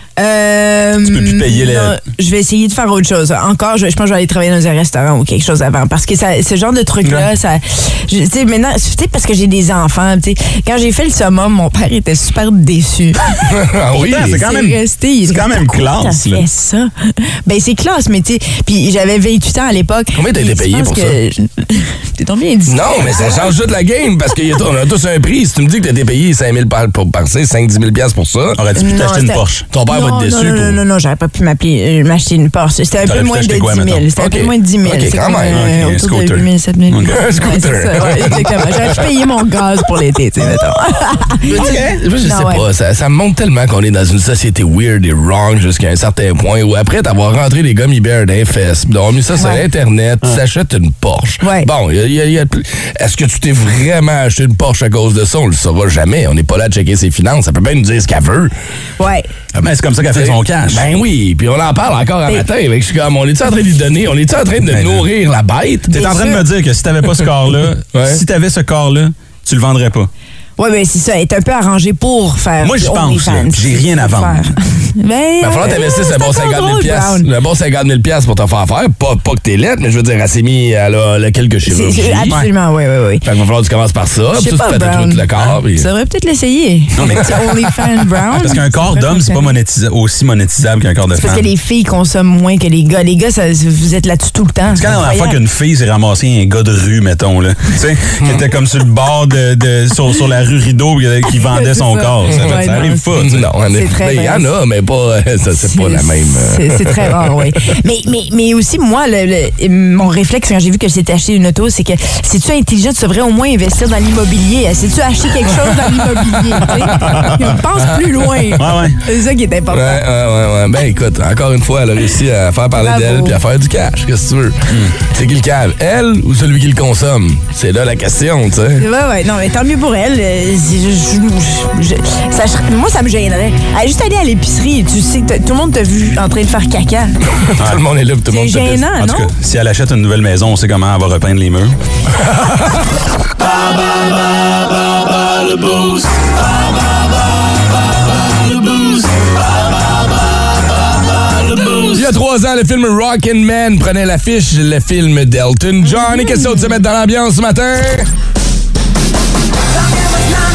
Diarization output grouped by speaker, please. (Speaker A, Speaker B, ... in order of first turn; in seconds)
Speaker A: 0.2-13.2, 14.3-16.9, 17.4-23.5, 28.8-42.6, 51.4-51.7, 59.0-59.3, 65.9-66.4, 70.6-77.3, 81.7-83.2, 84.3-89.5, 91.2-95.4, 101.3-103.1, 103.7-104.5, 105.6-120.0, 122.8-123.4, 128.8-137.1, 138.3-139.3, 155.9-156.8
Speaker B: 1.0-2.0, 7.0-7.3, 14.0-16.4, 28.5-29.6, 33.0-34.1, 35.5-37.2, 41.4-42.0, 59.5-60.9, 64.6-65.1, 65.9-70.1, 72.6-74.5, 87.0-87.5, 88.3-91.5, 94.7-103.5, 116.8-117.5, 118.5-119.0, 124.7-125.0, 137.6-137.8, 139.0-141.8
Speaker C: 13.4-14.4, 20.1-21.2, 22.7-28.6, 29.7-30.8, 34.2-35.7, 37.1-39.1, 41.5-58.5, 60.1-65.9, 67.9-68.2, 75.4-82.4, 83.2-85.9, 103.1-107.3, 115.9-117.2, 117.8-118.5, 119.7-128.8, 137.4-138.9, 142.2-142.8, 151.9-158.1